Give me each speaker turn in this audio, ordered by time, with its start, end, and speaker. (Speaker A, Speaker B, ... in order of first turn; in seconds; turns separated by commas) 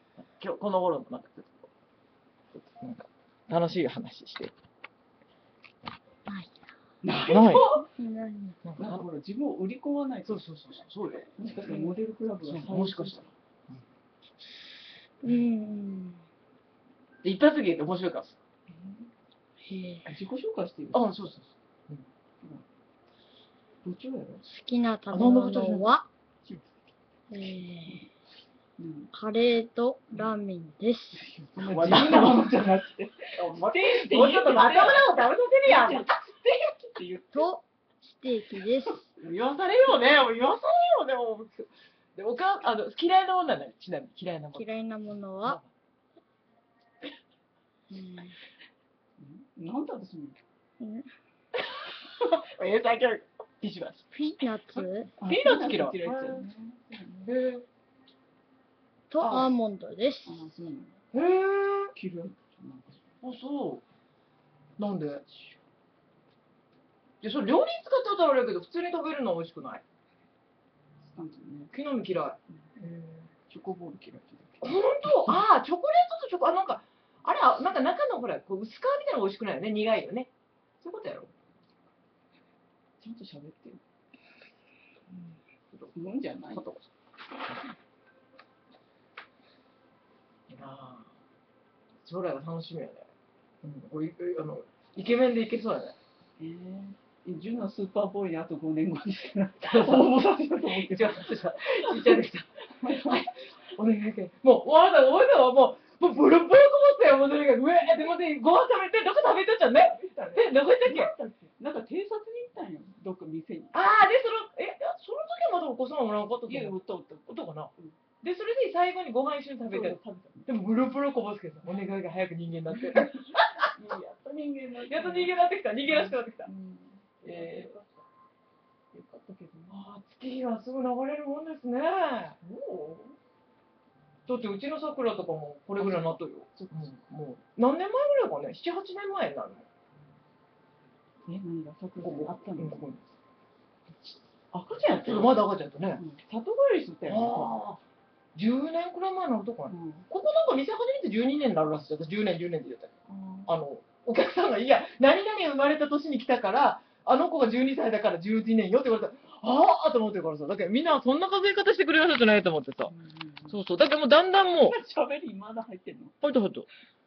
Speaker A: 0.2-1.6, Speaker A: 2.6-4.5, Speaker B: 6.3-6.5, Speaker C: 7.0-7.9, Speaker A: 7.2-7.7, Speaker B: 8.0-8.6, Speaker A: 8.6-9.1, Speaker C: 8.8-10.6, Speaker A: 10.2-11.7, Speaker C: 11.3-13.2, Speaker A: 12.4-13.3, Speaker B: 15.2-16.2, Speaker A: 17.2-18.4, Speaker C: 18.7-19.1, Speaker B: 19.6-20.1, Speaker C: 20.1-21.1, Speaker A: 20.9-22.0, Speaker C: 23.8-24.4, Speaker B: 24.4-26.1, Speaker A: 25.1-25.9, Speaker C: 26.4-26.7, Speaker B: 27.3-28.1, Speaker C: 28.8-29.1, Speaker B: 29.1-31.3, Speaker A: 31.2-32.5, Speaker C: 31.5-37.5, Speaker A: 33.4-36.1, Speaker B: 37.3-39.1, Speaker A: 39.2-44.7, Speaker B: 44.5-45.6, Speaker A: 45.4-45.7, Speaker B: 47.9-48.4, Speaker C: 49.2-50.4, Speaker B: 50.8-51.1, Speaker A: 52.2-54.1, Speaker B: 54.1-55.1, Speaker A: 54.7-56.5, Speaker C: 55.2-57.2, Speaker A: 57.1-57.6, Speaker B: 59.1-60.4, Speaker A: 59.2-59.5, Speaker C: 60.2-61.0, Speaker A: 61.1-61.9, Speaker C: 61.9-63.0, Speaker A: 63.2-63.8, Speaker A: 64.8-65.2, Speaker C: 65.3-65.6, Speaker A: 67.2-69.8, Speaker C: 71.0-71.7, Speaker A: 71.7-73.3, Speaker C: 73.5-75.4, Speaker A: 74.6-80.3, Speaker A: 80.8-81.3, Speaker C: 83.0-83.8, Speaker C: 85.9-86.7, Speaker A: 86.5-86.8, Speaker A: 90.5-91.1, Speaker A: 92.0-93.1, Speaker A: 93.6-96.0, Speaker C: 96.4-103.3, Speaker A: 99.6-111.1, Speaker C: 109.7-113.8, Speaker A: 113.7-116.8, Speaker C: 116.5-118.0, Speaker A: 117.3-123.7, Speaker C: 119.7-120.5, Speaker C: 122.7-128.0, Speaker A: 124.9-126.5, Speaker A: 127.2-127.7, Speaker C: 128.9-129.8, Speaker A: 129.7-132.4, Speaker C: 132.4-133.1, Speaker A: 134.3-139.7, Speaker C: 135.8-136.9, Speaker C: 141.2-142.9, Speaker A: 142.0-143.0, Speaker C: 144.5-145.3, Speaker A: 144.9-146.0, Speaker C: 146.0-147.6, Speaker A: 147.1-147.8, Speaker A: 148.3-152.9, Speaker C: 149.7-150.1, Speaker C: 153.1-153.5, Speaker A: 153.5-162.9, Speaker C: 162.9-163.6, Speaker A: 163.5-164.8, Speaker C: 164.6-166.2, Speaker A: 166.2-166.7